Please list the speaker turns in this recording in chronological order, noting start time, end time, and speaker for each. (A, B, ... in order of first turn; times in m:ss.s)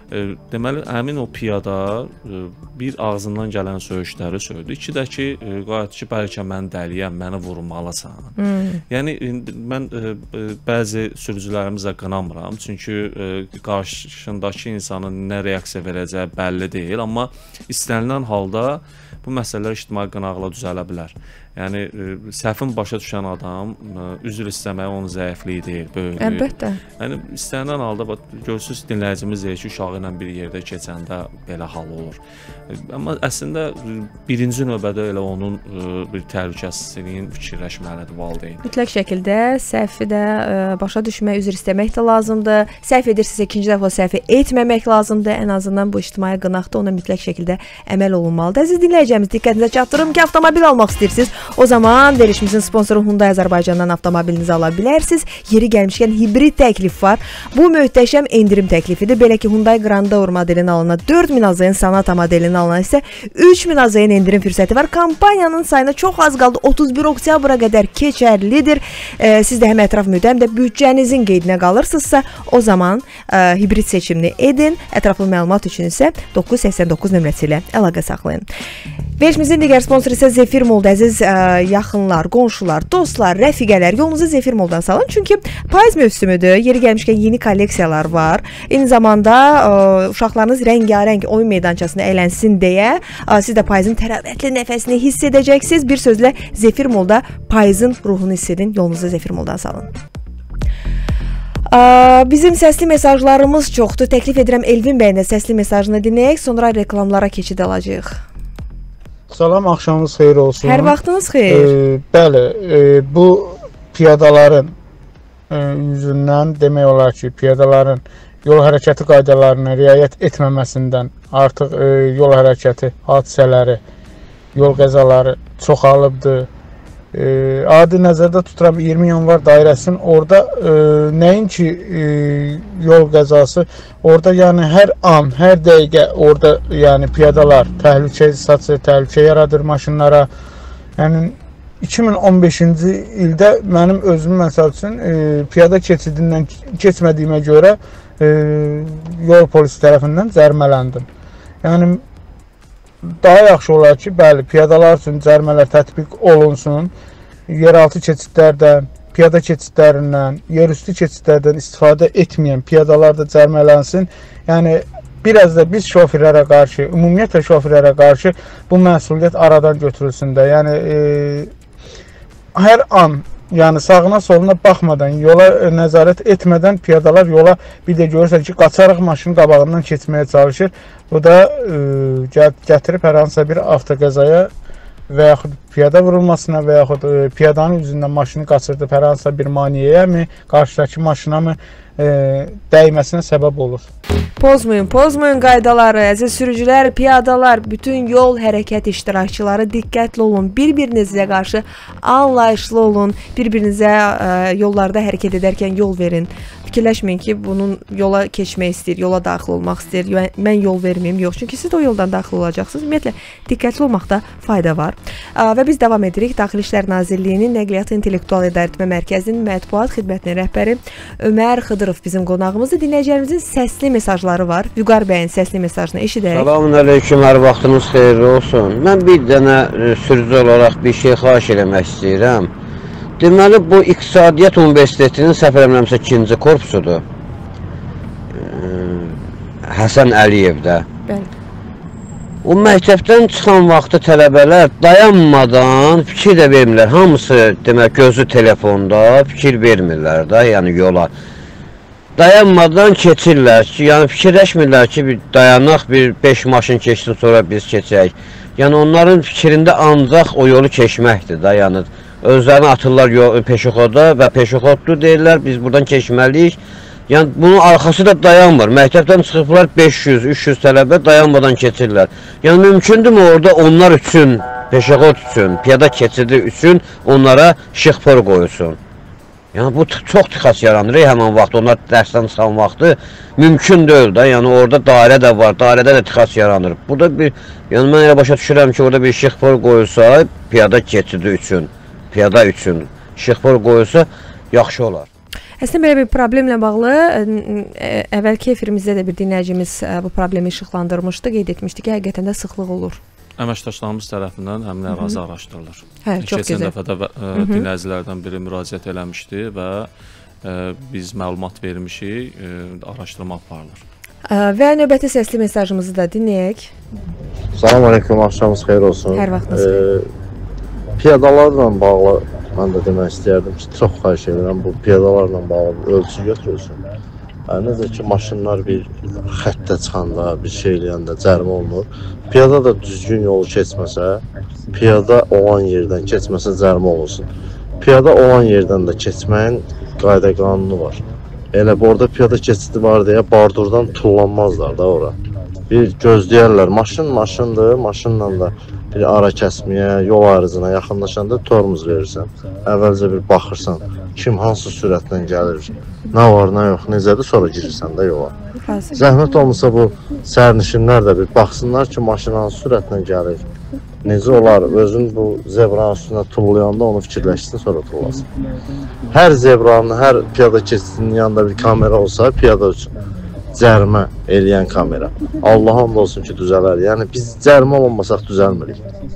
0:00.1-0:08.3 A
0:08.4-0:08.8 B
0:08.9-0:38.6 A
0:26.2-0:26.8 B
0:38.6-1:18.4 B
1:19.2-1:39.9 B
1:41.7-1:48.2 B
1:49.3-1:51.0 C
1:50.6-1:51.7 B
1:51.5-1:54.7 C
1:55.5-2:03.8 C
2:04.5-2:06.5 C
2:07.1-2:20.3 C
2:21.0-2:31.0 C
2:31.6-2:32.0 C
2:33.2-2:36.9 C
2:37.5-2:51.5 C
2:52.5-3:04.5 C
3:05.1-3:13.9 C
3:14.4-3:46.5 B
3:46.3-3:52.5 D
3:53.2-3:57.0 D
3:58.3-4:00.9 D
4:02.4-4:11.1 D
4:12.2-4:38.8 D
4:39.5-4:55.1 D
4:55.6-5:03.0 B
5:03.4-5:09.9 A
5:04.9-5:05.2 B
5:06.0-5:06.7 B
5:07.3-5:07.7 B
5:10.4-5:13.8 A
5:14.3-5:16.7 B
5:17.5-5:20.0 E
5:19.1-5:19.8 B
5:21.0-5:26.8 E
5:27.5-5:41.0 E
5:41.5-5:45.2 E
5:45.7-5:58.3 E
5:58.6-5:59.0 B
5:58.9-6:03.4 E
6:04.0-6:08.3 E
6:09.1-6:13.0 E
6:13.5-6:18.8 E